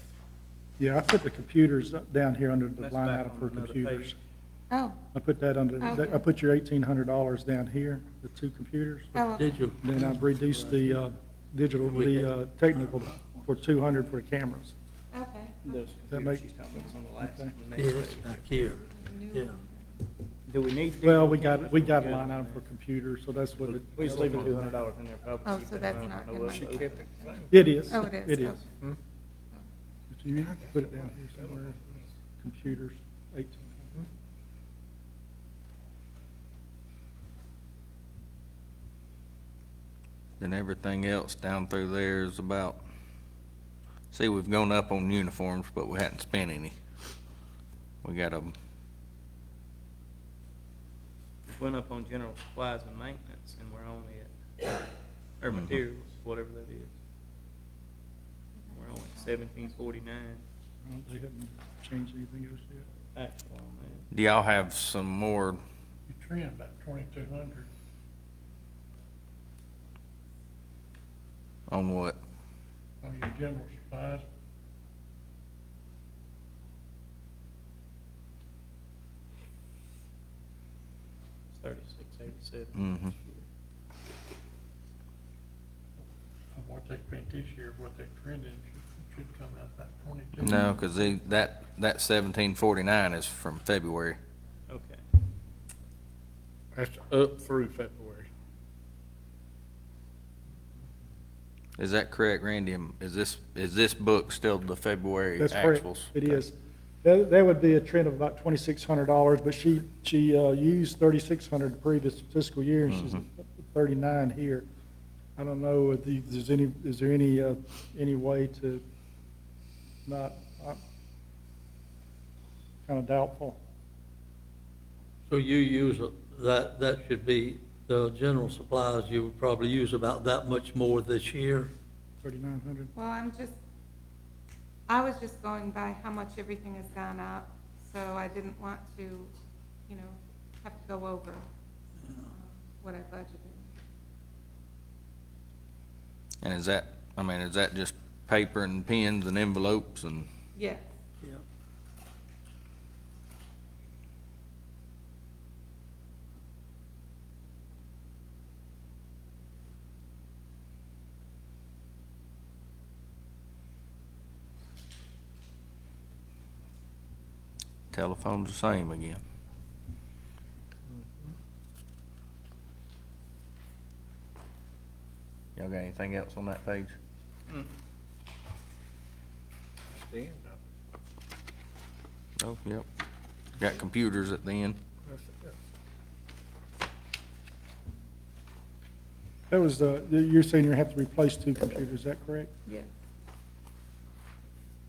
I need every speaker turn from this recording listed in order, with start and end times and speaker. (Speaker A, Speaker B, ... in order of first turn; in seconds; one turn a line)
Speaker A: 0.8-4.2
Speaker B: 2.8-4.2
Speaker C: 4.7-5.0
Speaker A: 5.1-9.2
Speaker C: 5.8-6.2
Speaker C: 9.2-9.7
Speaker D: 9.3-10.0
Speaker A: 9.8-14.8
Speaker B: 11.9-12.2
Speaker C: 15.1-15.8
Speaker B: 15.7-18.7
Speaker A: 16.1-17.6
Speaker D: 17.8-18.8
Speaker C: 18.6-20.0
Speaker B: 20.5-22.6
Speaker A: 21.0-24.8
Speaker B: 23.6-27.4
Speaker C: 25.4-27.3
Speaker A: 27.5-28.6
Speaker C: 27.9-28.6
Speaker A: 30.1-31.8
Speaker A: 32.4-34.1
Speaker E: 40.4-42.8
Speaker E: 44.1-46.8
Speaker E: 48.0-48.5
Speaker B: 51.5-54.8
Speaker B: 55.4-56.9
Speaker E: 55.5-55.8
Speaker C: 58.6-59.3
Speaker B: 58.7-60.4
Speaker A: 60.8-62.9
Speaker B: 63.1-64.1
Speaker E: 64.1-65.6
Speaker F: 66.1-67.7
Speaker E: 71.7-72.2
Speaker F: 73.0-74.2
Speaker B: 81.5-83.4
Speaker E: 82.8-83.2
Speaker F: 86.5-90.9
Speaker E: 90.4-94.2
Speaker B: 94.7-95.0
Speaker F: 96.8-98.3
Speaker E: 101.8-106.4
Speaker A: 105.4-114.7
Speaker E: 112.9-113.2
Speaker A: 115.4-118.8
Speaker A: 120.1-120.8
Speaker A: 122.9-123.6
Speaker D: 125.3-131.7
Speaker A: 132.2-132.9
Speaker C: 132.9-133.6
Speaker C: 134.9-139.3
Speaker C: 139.9-141.5
Speaker C: 142.2-143.7
Speaker E: 146.4-150.3
Speaker C: 150.6-150.9
Speaker E: 167.9-169.2
Speaker E: 175.6-176.9
Speaker E: 182.4-182.9
Speaker E: 183.6-184.8
Speaker A: 189.5-192.5